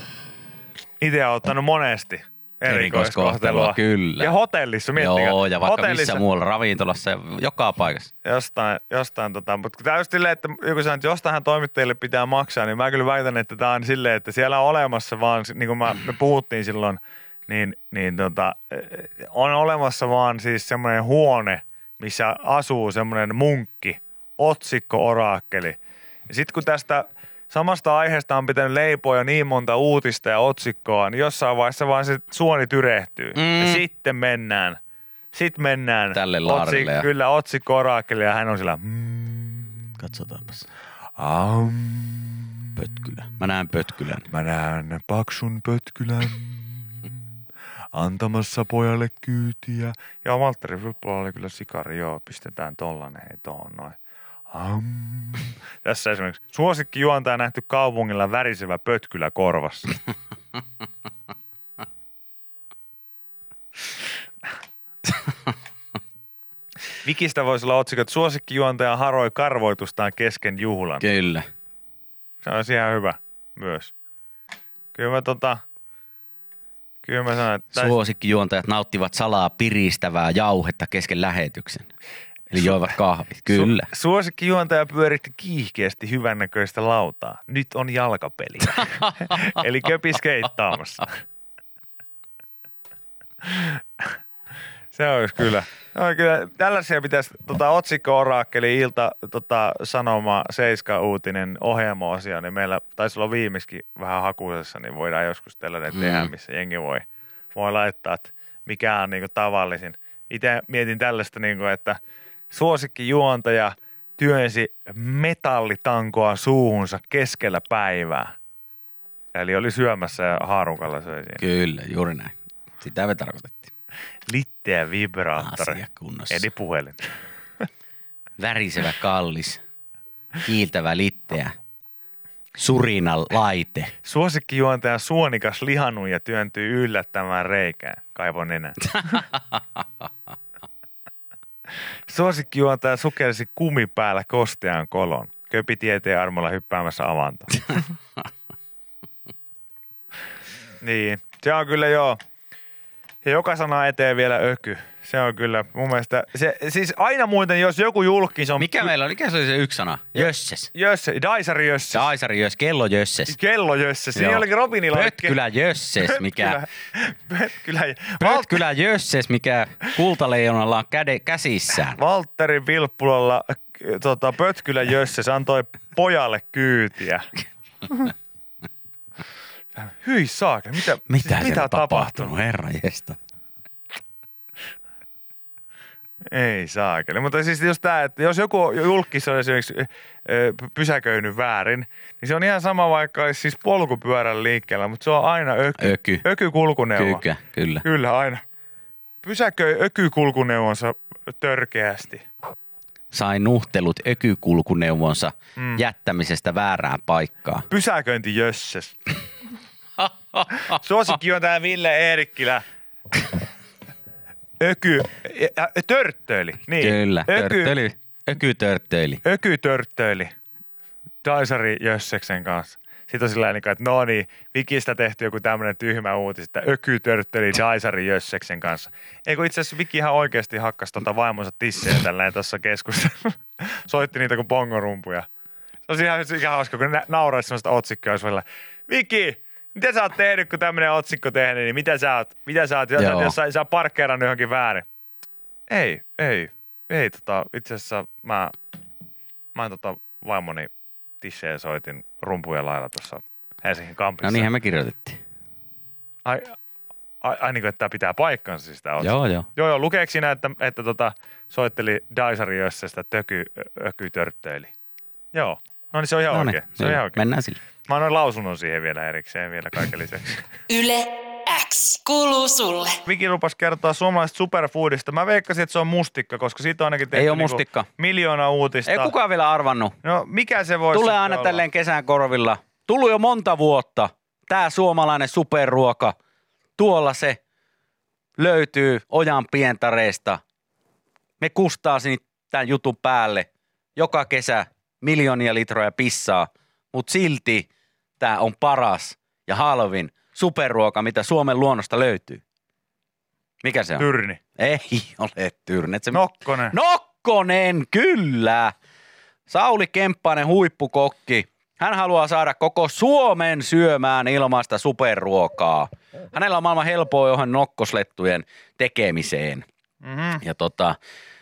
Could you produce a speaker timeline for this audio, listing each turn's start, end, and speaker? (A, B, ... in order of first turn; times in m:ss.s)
0:01.0-0:06.2 A
0:02.6-0:04.3 B
0:05.0-0:08.1 B
0:08.2-0:25.8 A
0:26.3-0:34.8 A
0:33.3-0:33.8 B
0:35.3-0:40.0 A
0:36.1-0:37.1 B
0:40.0-0:40.6 B
0:41.2-0:43.1 A
0:42.8-0:44.3 B
0:44.3-0:47.2 A
0:47.9-0:54.0 A
0:54.5-1:00.0 A
1:07.0-1:11.0 A
1:11.0-1:11.4 B
1:12.4-1:13.9 A
1:14.9-1:15.6 A
1:17.0-1:18.0 A
1:17.7-1:21.9 B
1:22.5-1:23.9 B
1:22.6-1:22.8 A
1:23.5-1:31.2 A
1:33.4-1:34.2 A
1:34.9-1:52.0 A
1:45.9-1:46.3 B
1:52.5-1:58.4 A
1:59.3-2:01.4 A
2:01.4-2:03.7 B
2:04.3-2:07.0 A
2:05.4-2:06.4 B
2:08.4-2:09.6 B
2:10.4-2:11.5 B
2:12.6-2:13.9 B
2:14.0-2:19.3 A
2:22.1-2:27.9 A
2:30.8-2:32.2 A
2:33.2-2:38.9 A
2:38.6-2:40.7 B
2:40.1-2:42.1 A
2:41.9-2:43.4 B
2:43.3-2:45.4 A
2:44.1-2:46.6 B
2:46.0-2:48.6 A
2:48.2-2:52.0 B
2:51.9-2:57.2 A
2:57.8-2:58.1 A
2:59.7-3:02.4 A
3:01.1-3:03.2 B
3:06.2-3:17.2 A
3:15.8-3:16.2 B
3:16.9-3:17.8 B
3:17.8-3:18.4 A
3:19.2-3:22.2 A
3:23.1-3:27.7 B
3:25.6-3:25.8 A
3:27.7-3:29.1 A
3:30.5-3:32.6 A
3:34.6-3:37.8 A
3:36.8-3:39.2 B
3:39.2-3:40.3 A
3:41.2-3:55.3 A
3:55.9-4:04.8 A
4:03.0-4:03.3 B
4:05.7-4:08.6 A
4:09.5-4:14.5 A
4:14.2-4:15.2 B
4:16.2-4:16.6 A
4:17.2-4:24.7 A
4:19.0-4:19.5 B
4:25.3-4:27.2 A
4:26.3-4:27.6 B
4:27.8-4:30.5 A
4:30.7-4:32.9 C
4:33.0-4:39.1 A
4:37.1-4:37.9 B
4:38.8-4:40.0 B
4:40.0-4:41.6 A
4:40.9-4:46.2 B
4:46.8-4:47.4 B
4:48.4-4:50.4 B
4:51.4-4:57.7 B
4:58.2-5:02.4 B
5:03.6-5:08.7 B
5:04.0-5:04.4 A
5:06.1-5:06.7 A
5:09.5-5:19.6 B
5:20.0-5:20.4 A
5:20.4-5:21.0 B